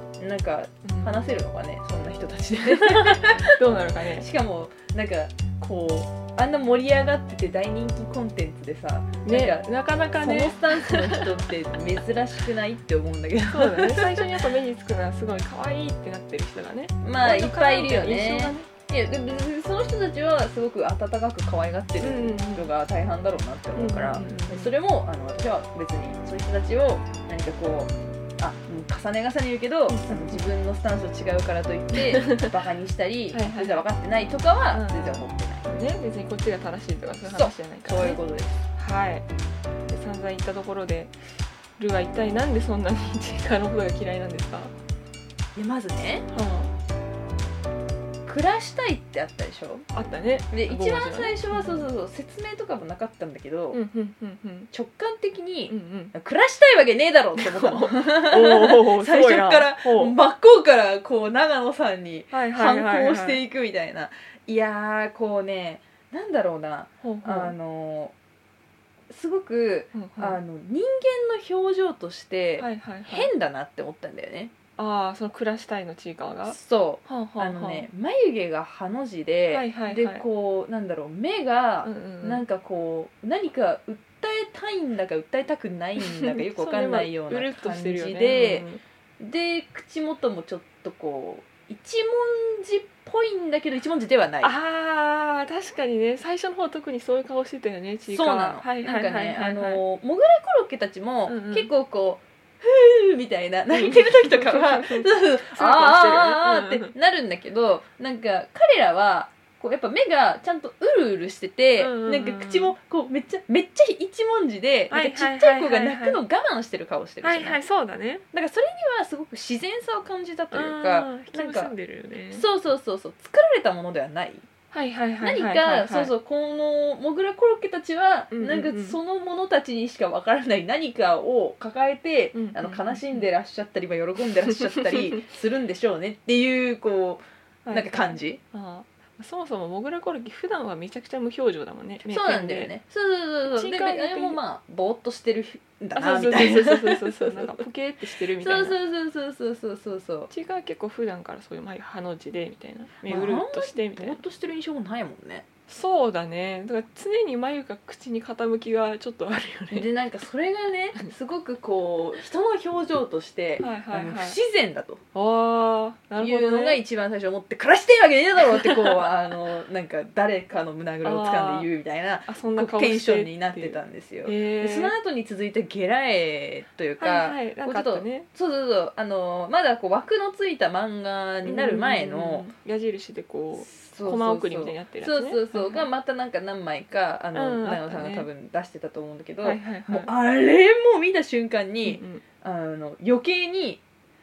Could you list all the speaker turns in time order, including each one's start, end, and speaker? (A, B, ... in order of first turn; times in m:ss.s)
0:00.2-0:03.5 A
0:00.8-0:01.2 B
0:02.8-0:04.3 B
0:04.2-0:09.6 A
0:09.3-0:11.3 B
0:10.2-0:14.3 A
0:13.5-0:18.7 B
0:17.0-0:35.7 A
0:22.0-0:22.7 B
0:23.8-0:24.7 B
0:29.9-0:30.5 B
0:31.9-0:32.4 B
0:33.3-0:33.8 B
0:34.7-0:38.2 B
0:37.2-0:38.6 A
0:38.8-0:39.3 B
0:39.8-0:41.2 B
0:41.8-0:44.7 B
0:45.6-0:46.3 A
0:46.3-0:46.7 B
0:48.3-0:49.9 A
0:49.9-0:51.9 B
0:50.5-0:53.8 A
0:53.7-0:54.7 B
0:54.7-1:08.1 A
0:55.7-0:56.1 B
0:57.4-1:00.2 B
1:02.3-1:03.4 B
1:07.0-1:07.6 B
1:09.1-1:14.5 A
1:09.9-1:10.4 B
1:12.6-1:13.3 B
1:14.8-1:17.9 B
1:16.5-1:28.6 A
1:19.5-1:20.2 B
1:21.8-1:22.4 B
1:26.0-1:28.8 B
1:29.2-1:34.6 A
1:34.4-1:39.8 B
1:38.1-1:57.6 A
1:41.3-1:41.7 B
1:43.7-1:46.9 B
1:51.8-1:52.7 B
1:54.9-1:56.2 B
1:57.2-1:58.2 B
1:58.3-2:01.7 A
2:00.5-2:02.4 B
2:02.3-2:04.5 A
2:04.7-2:06.1 B
2:05.2-2:18.4 A
2:08.3-2:09.0 B
2:12.3-2:13.3 B
2:14.8-2:15.2 B
2:17.6-2:22.7 B
2:22.0-2:27.6 A
2:23.6-2:24.4 B
2:26.0-2:28.8 B
2:28.4-2:30.3 A
2:30.3-2:34.2 B
2:33.0-2:35.4 A
2:35.7-2:39.9 B
2:39.7-2:45.0 A
2:43.6-2:44.4 B
2:45.1-2:46.8 B
2:46.2-3:02.5 A
2:48.4-2:49.1 B
2:51.0-2:51.7 B
2:52.3-2:54.9 B
2:57.0-2:58.3 B
3:01.4-3:05.9 B
3:03.6-3:13.8 A
3:07.3-3:08.3 B
3:09.4-3:10.1 B
3:11.8-3:12.2 B